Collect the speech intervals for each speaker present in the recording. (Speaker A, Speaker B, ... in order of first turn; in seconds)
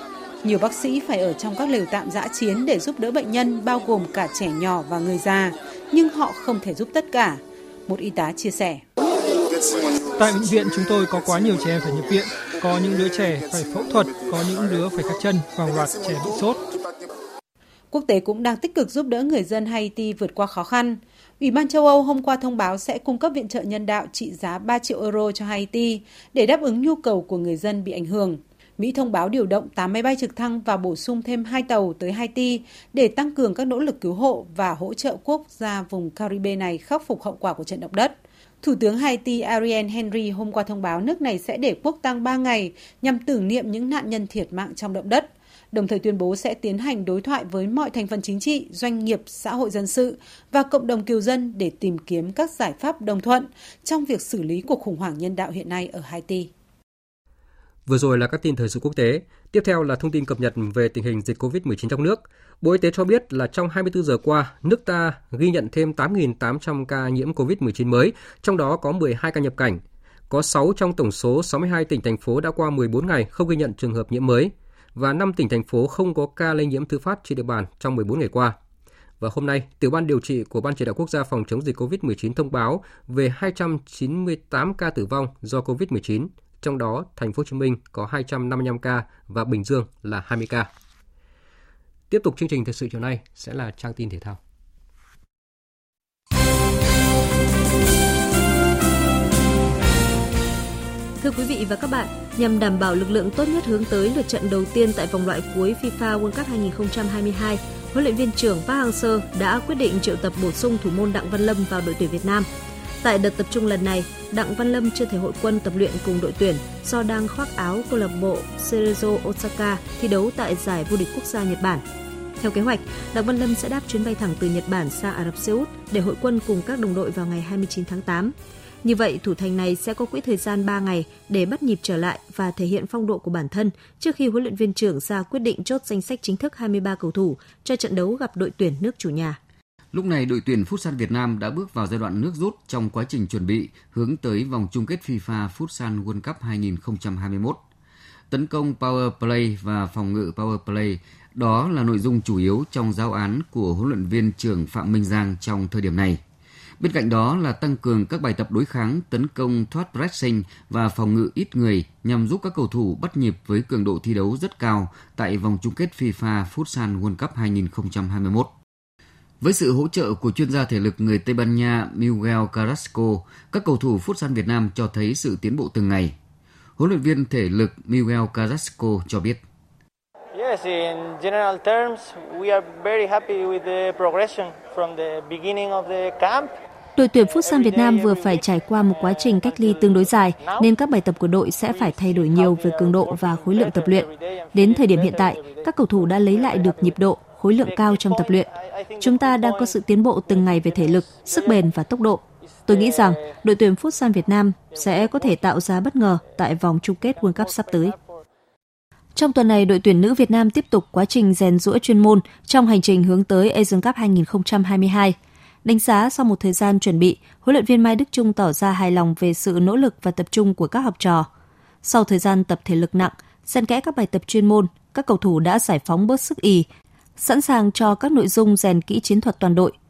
Speaker A: 0.4-8.8, 17.9-56.5
Speaker B: 10.2-16.6
Speaker C: 57.9-78.6, 79.2-90.7, 92.1-94.4
Speaker D: 101.2-112.5, 113.0-121.8, 122.4-139.4, 187.0-198.4, 199.0-207.9, 209.1-221.3, 221.8-226.7, 227.2-229.7
Speaker E: 139.9-147.6, 148.3-156.2, 156.8-168.5, 169.4-176.2, 176.8-179.4
Speaker F: 180.3-186.5, 187.2-190.8, 191.6-201.7, 202.4-203.4, 204.6-205.7, 206.2-208.2